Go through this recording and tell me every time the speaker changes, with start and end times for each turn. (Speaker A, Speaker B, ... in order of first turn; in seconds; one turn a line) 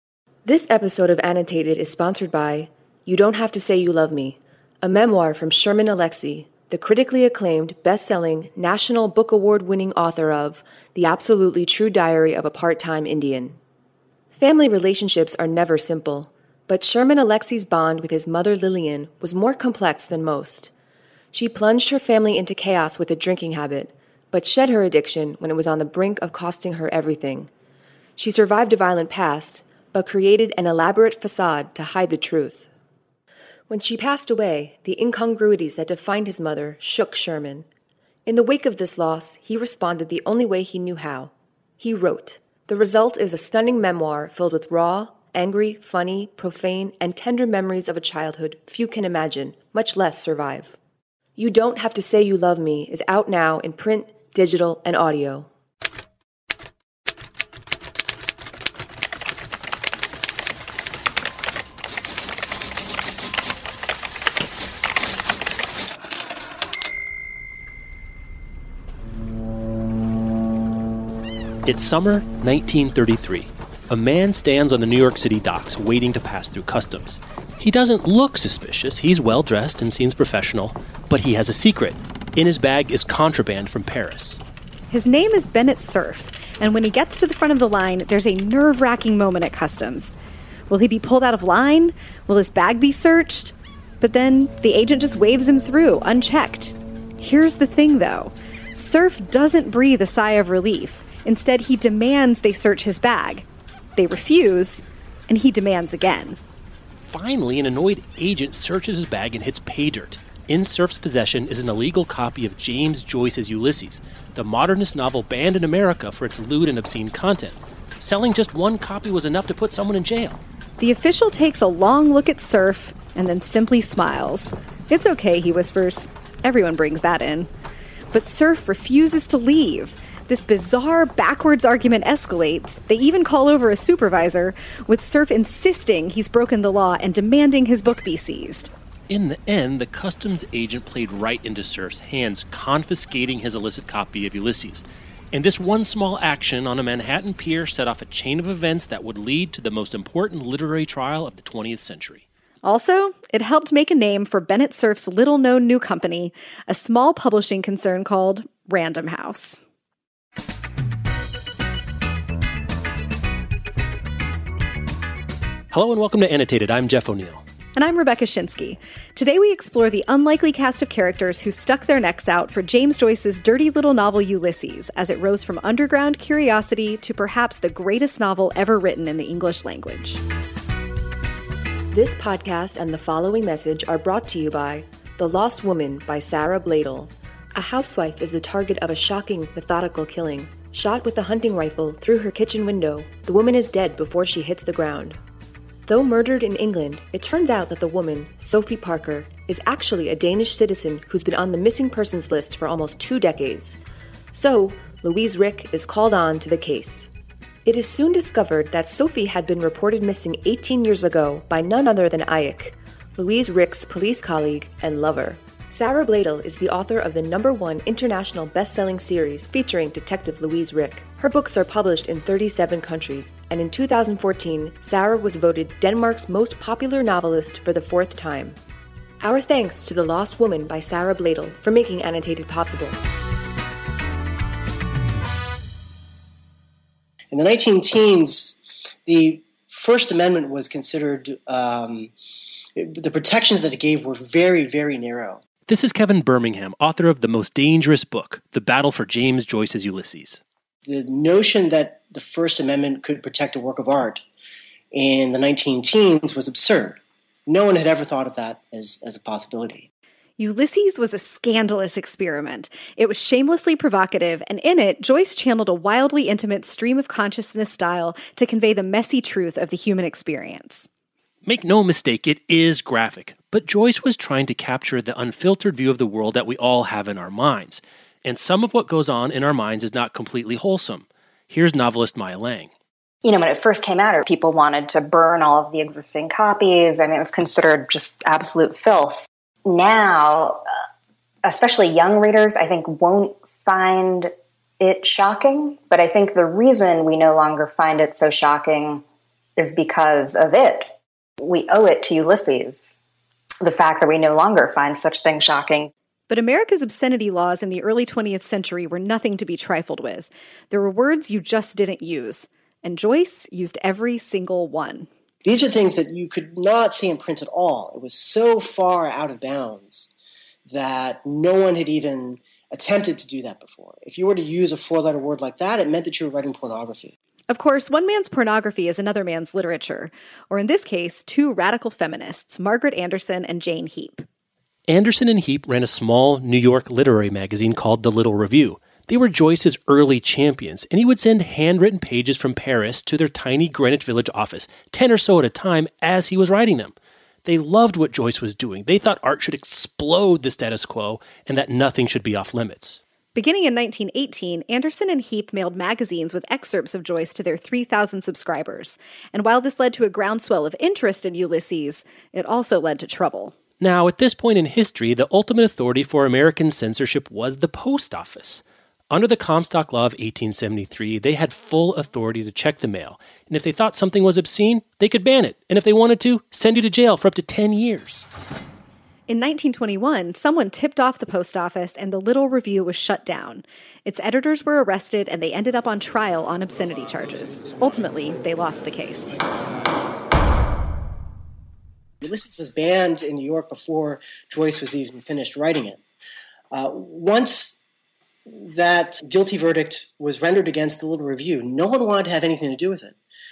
Speaker A: 0.4-13.6
Speaker A: 14.3-20.7
Speaker A: 21.3-27.5
Speaker A: 28.2-32.7
Speaker A: 33.7-37.6
Speaker A: 38.2-50.8
Speaker A: 51.4-55.5
Speaker B: 71.6-84.4
Speaker C: 84.9-90.1
Speaker C: 90.7-106.4
Speaker B: 107.0-120.4
Speaker C: 120.8-127.5
Speaker C: 128.1-138.7
Speaker B: 139.1-152.2
Speaker C: 152.6-159.6
Speaker B: 165.7-167.4
Speaker C: 167.7-180.2
Speaker A: 181.9-195.2
Speaker A: 195.9-203.8
Speaker A: 204.3-207.1
Speaker A: 207.6-228.6
Speaker A: 229.2-233.0
Speaker D: 237.3-242.1
Speaker D: 242.8-245.4
Speaker B: 245.7-250.4
Speaker D: 250.8-254.2
Speaker D: 254.9-259.9
Speaker C: 260.4-270.9
Speaker B: 271.4-282.7
Speaker E: 283.2-290.6
Speaker E: 291.4-299.0
Speaker E: 299.6-300.9
Speaker E: 301.4-302.9
Speaker E: 303.6-305.9
Speaker C: 306.3-315.1
Speaker D: 315.4-320.1
Speaker D: 320.6-327.1
Speaker C: 327.5-334.2
Speaker B: 334.9-346.9
Speaker B: 347.4-353.0
Speaker C: 353.3-363.5
Speaker B: 363.8-378.2
Speaker C: 379.3-389.4
Speaker D: 392.2-396.0
Speaker D: 396.7-397.8
Speaker D: 398.5-403.2